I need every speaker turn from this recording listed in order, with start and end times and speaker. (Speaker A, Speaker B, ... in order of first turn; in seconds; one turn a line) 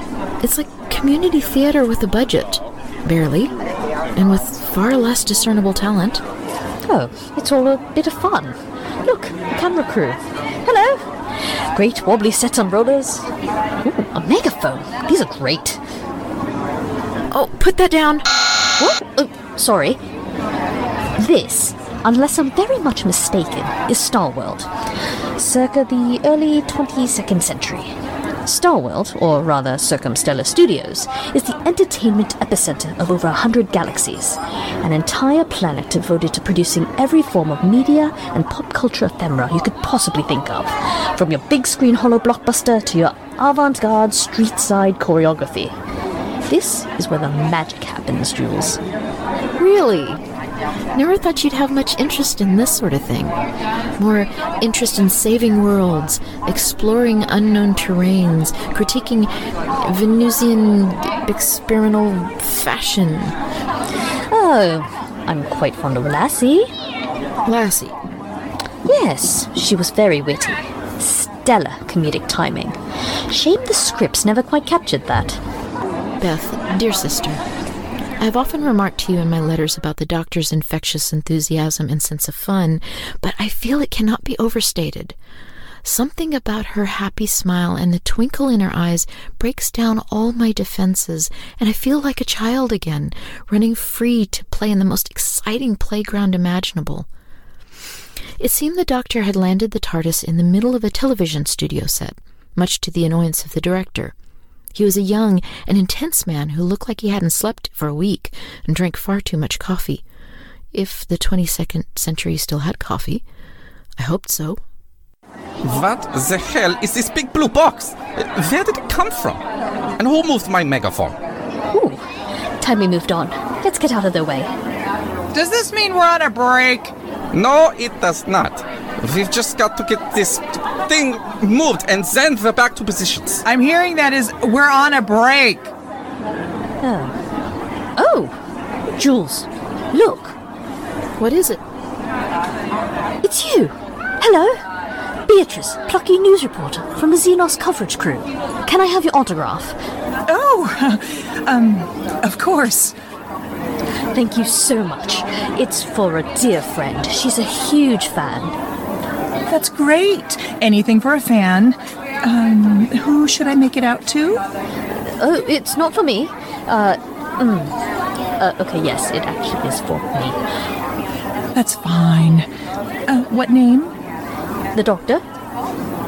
Speaker A: 0.4-3.5
Speaker A: 4.1-6.2
Speaker B: 6.8-13.3
Speaker B: 13.8-15.8
Speaker A: 17.3-18.2
Speaker B: 18.8-20.0
Speaker B: 21.2-24.7
Speaker B: 25.4-45.7
Speaker B: 46.4-48.8
Speaker A: 49.6-50.2
Speaker A: 50.9-53.4
Speaker A: 54.0-63.4
Speaker B: 64.3-66.7
Speaker A: 67.4-68.0
Speaker B: 68.8-75.4
Speaker A: 76.2-77.4
Speaker A: 78.2-85.2
Speaker A: 85.8-97.1
Speaker A: 98.4-104.1
Speaker A: 104.7-110.0
Speaker A: 110.7-113.2
Speaker A: 114.0-114.6
Speaker C: 115.6-119.4
Speaker C: 120.0-121.2
Speaker B: 121.7-122.0
Speaker B: 122.6-124.5
Speaker D: 125.3-126.9
Speaker C: 127.3-133.4
Speaker D: 133.4-135.7
Speaker B: 136.8-137.1
Speaker B: 137.9-138.3
Speaker B: 138.9-140.4
Speaker A: 141.2-141.6
Speaker B: 143.2-144.6
Speaker B: 145.3-149.8
Speaker D: 150.2-152.9
Speaker B: 154.1-158.6
Speaker D: 159.5-164.4
Speaker B: 164.9-167.7
Speaker B: 168.4-170.4
Speaker D: 171.5-172.5
Speaker D: 173.1-173.9
Speaker B: 174.7-175.2